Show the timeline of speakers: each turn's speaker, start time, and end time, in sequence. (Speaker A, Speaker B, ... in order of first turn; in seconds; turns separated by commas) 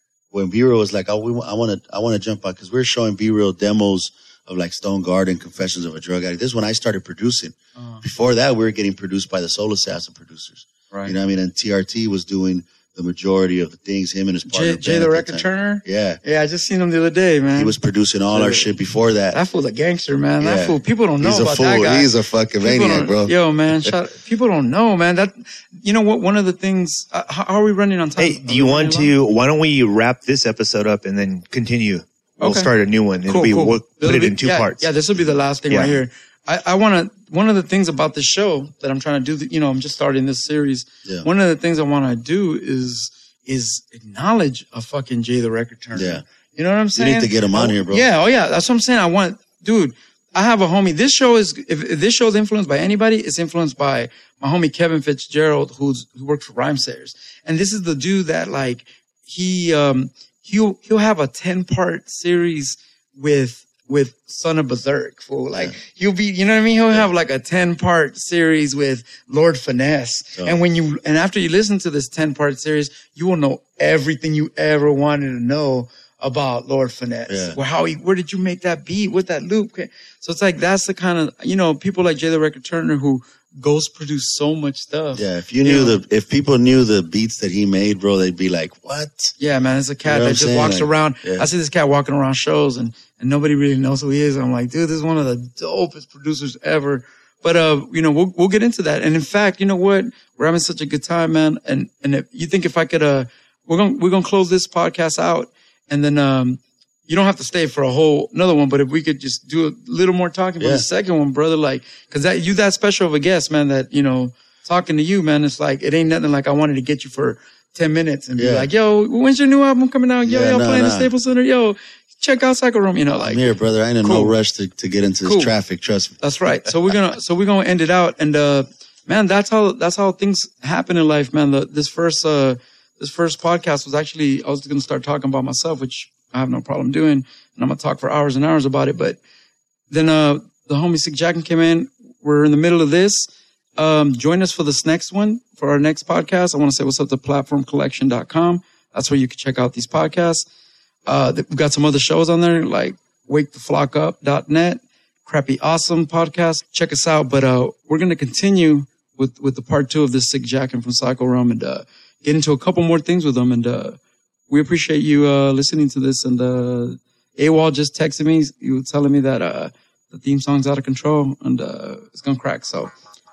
Speaker A: 0.3-16.2, Speaker B: 7.8-8.0, Speaker B: 14.5-17.7, Speaker A: 17.6-19.4, Speaker B: 18.3-18.7, Speaker B: 19.3-22.1, Speaker A: 20.4-23.9, Speaker B: 22.6-29.1, Speaker C: 28.2-34.9, Speaker B: 32.4-32.7, Speaker B: 33.2-86.0, Speaker C: 35.7-36.0, Speaker A: 46.0-46.2, Speaker A: 47.0-48.0, Speaker A: 77.3-77.6, Speaker A: 85.1-89.3, Speaker B: 89.4-124.3, Speaker A: 90.0-91.5, Speaker A: 110.6-110.8, Speaker A: 118.4-118.7, Speaker A: 120.2-121.1, Speaker A: 123.2-126.2, Speaker B: 125.2-125.5, Speaker B: 126.2-139.2, Speaker B: 139.9-150.4, Speaker B: 151.1-164.0, Speaker B: 164.5-172.9